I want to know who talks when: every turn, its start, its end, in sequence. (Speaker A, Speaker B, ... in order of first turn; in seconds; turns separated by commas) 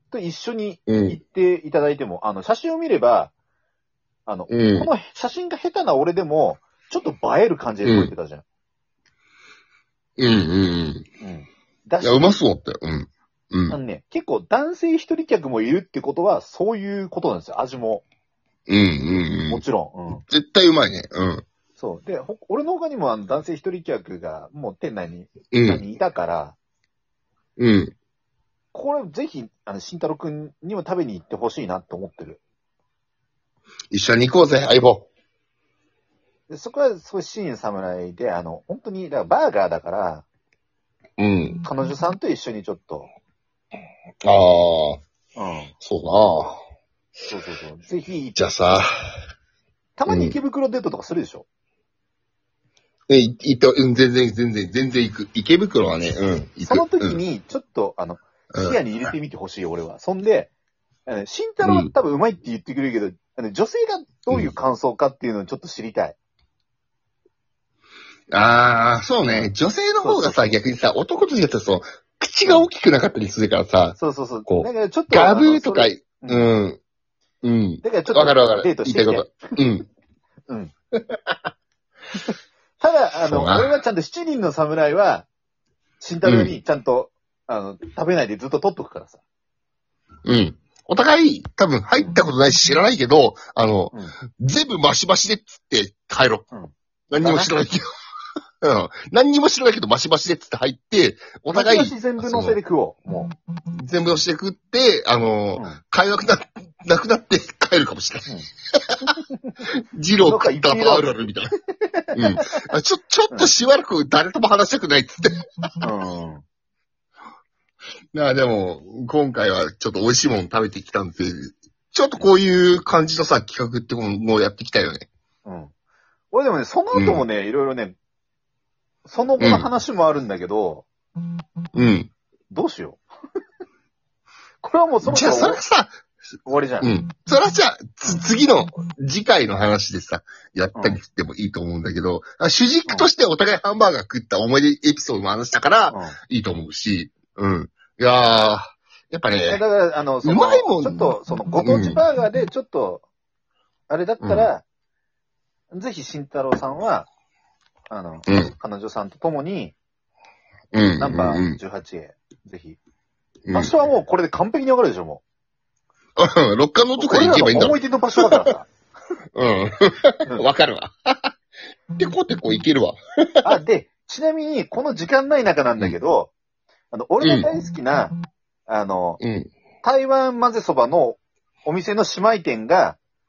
Speaker A: 0.1-3.3, Speaker B: 0.9-1.2, Speaker A: 4.2-8.4, Speaker B: 4.5-4.9, Speaker B: 7.8-8.1, Speaker B: 10.2-11.0, Speaker A: 11.2-12.4, Speaker B: 12.0-13.8, Speaker A: 13.7-18.0, Speaker B: 18.7-19.6, Speaker A: 19.1-20.2, Speaker B: 20.3-21.4, Speaker A: 21.8-26.6, Speaker B: 25.5-25.8, Speaker B: 27.6-27.9, Speaker A: 28.7-32.4, Speaker B: 33.9-35.1, Speaker A: 36.5-40.2, Speaker B: 41.2-41.6, Speaker A: 41.6-43.1, Speaker B: 44.2-45.0, Speaker A: 45.4-45.7, Speaker B: 45.8-46.6, Speaker A: 47.3-48.8, Speaker B: 48.4-49.1, Speaker A: 50.0-51.4, Speaker B: 50.1-50.4, Speaker B: 53.1-57.2, Speaker A: 56.6-60.5, Speaker B: 58.5-58.8, Speaker A: 61.0-66.2, Speaker B: 61.6-61.9, Speaker B: 68.3-76.8, Speaker A: 69.2-70.6, Speaker A: 74.0-76.5, Speaker B: 77.4-79.9, Speaker A: 77.8-79.5, Speaker A: 80.5-80.7, Speaker B: 81.1-81.3, Speaker A: 82.3-85.3, Speaker B: 83.2-83.7, Speaker A: 86.0-89.2, Speaker B: 86.2-86.5, Speaker B: 90.2-96.4, Speaker A: 96.5-97.5, Speaker B: 97.1-97.8, Speaker B: 98.6-102.6, Speaker A: 101.5-103.3, Speaker B: 103.7-109.2, Speaker B: 109.9-111.5, Speaker A: 110.2-112.7, Speaker B: 112.2-115.5, Speaker A: 115.8-116.4, Speaker B: 118.1-125.0, Speaker A: 125.4-125.7, Speaker A: 126.3-128.0, Speaker B: 126.9-127.2, Speaker A: 129.0-130.9, Speaker B: 129.4-129.7, Speaker B: 131.7-132.1, Speaker A: 132.5-133.0, Speaker A: 134.6-135.6, Speaker B: 135.0-135.9, Speaker A: 136.4-136.9, Speaker B: 136.8-149.6, Speaker A: 145.9-146.2, Speaker A: 149.4-153.0, Speaker B: 150.2-152.0, Speaker A: 153.9-154.6, Speaker B: 154.2-154.5, Speaker A: 155.7-157.1, Speaker A: 157.9-159.7, Speaker B: 158.3-158.5, Speaker B: 160.7-161.6, Speaker A: 161.0-162.8, Speaker B: 163.5-163.7, Speaker A: 163.5-165.2, Speaker B: 166.2-168.5, Speaker A: 167.0-168.7, Speaker B: 169.3-171.3, Speaker B: 171.9-173.5, Speaker A: 173.4-176.3, Speaker A: 176.9-178.1, Speaker B: 177.2-177.5, Speaker A: 178.7-179.2, Speaker B: 179.2-179.5, Speaker A: 179.8-183.0